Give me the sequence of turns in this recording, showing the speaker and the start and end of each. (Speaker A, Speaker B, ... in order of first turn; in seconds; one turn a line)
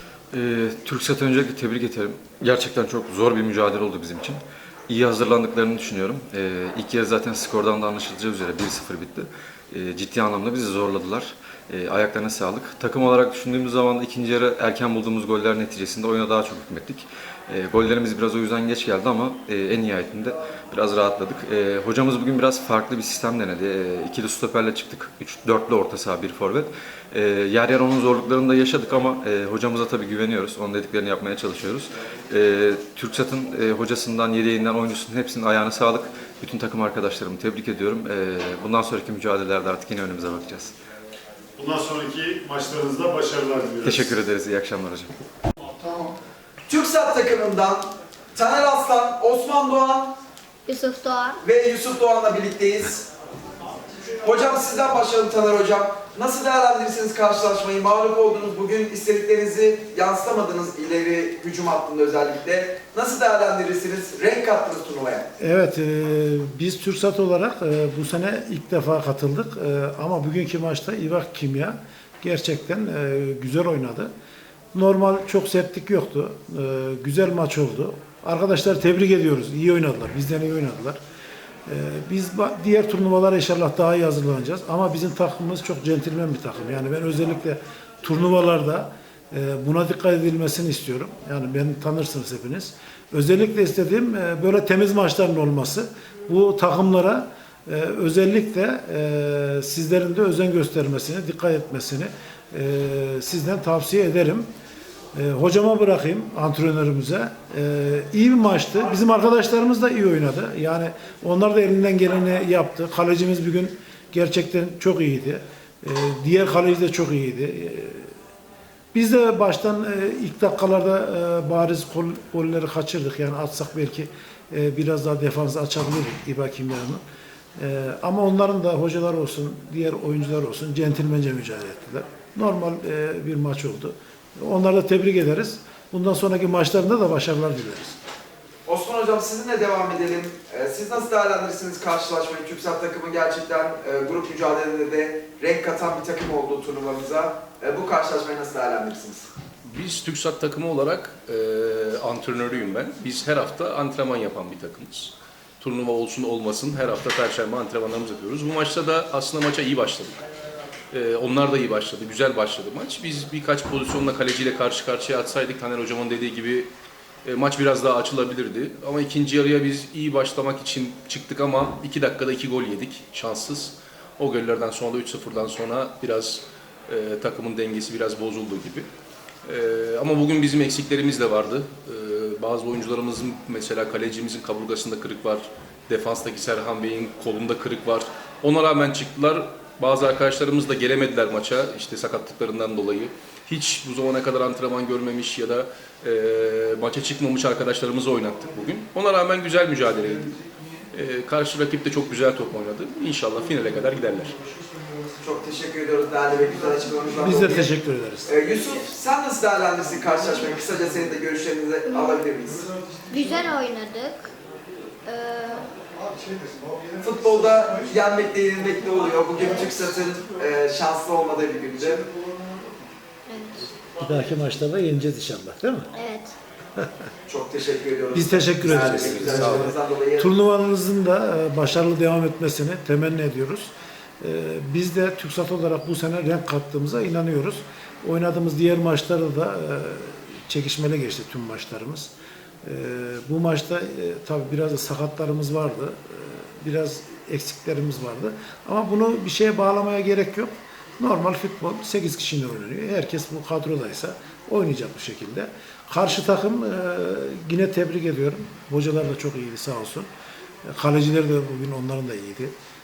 Speaker A: 0.3-40.7
Speaker B: 41.6-44.1
Speaker A: 43.8-45.2
Speaker B: 45.8-46.1
Speaker C: 46.7-50.1
Speaker D: 50.7-51.4
Speaker C: 51.4-53.0
Speaker C: 54.2-65.3
Speaker E: 65.4-74.1
Speaker E: 74.7-81.0
Speaker E: 81.7-104.5
Speaker E: 105.1-118.1
Speaker E: 118.9-127.0
Speaker E: 127.6-138.0
Speaker C: 138.7-149.3
Speaker F: 149.6-160.2
Speaker F: 160.9-166.7
Speaker F: 167.2-178.9
Speaker F: 179.4-200.4
Speaker F: 200.9-204.3
Speaker C: 205.2-212.7
Speaker E: 207.2-208.3
Speaker D: 211.8-212.3
Speaker D: 213.1-214.3
Speaker D: 215.0-215.7
Speaker C: 217.0-222.1
Speaker D: 223.3-223.7
Speaker E: 224.0-225.9
Speaker D: 225.9-226.3
Speaker C: 227.3-230.3
Speaker E: 228.1-242.1
Speaker F: 228.9-229.7
Speaker E: 242.6-260.1
Speaker E: 260.7-262.5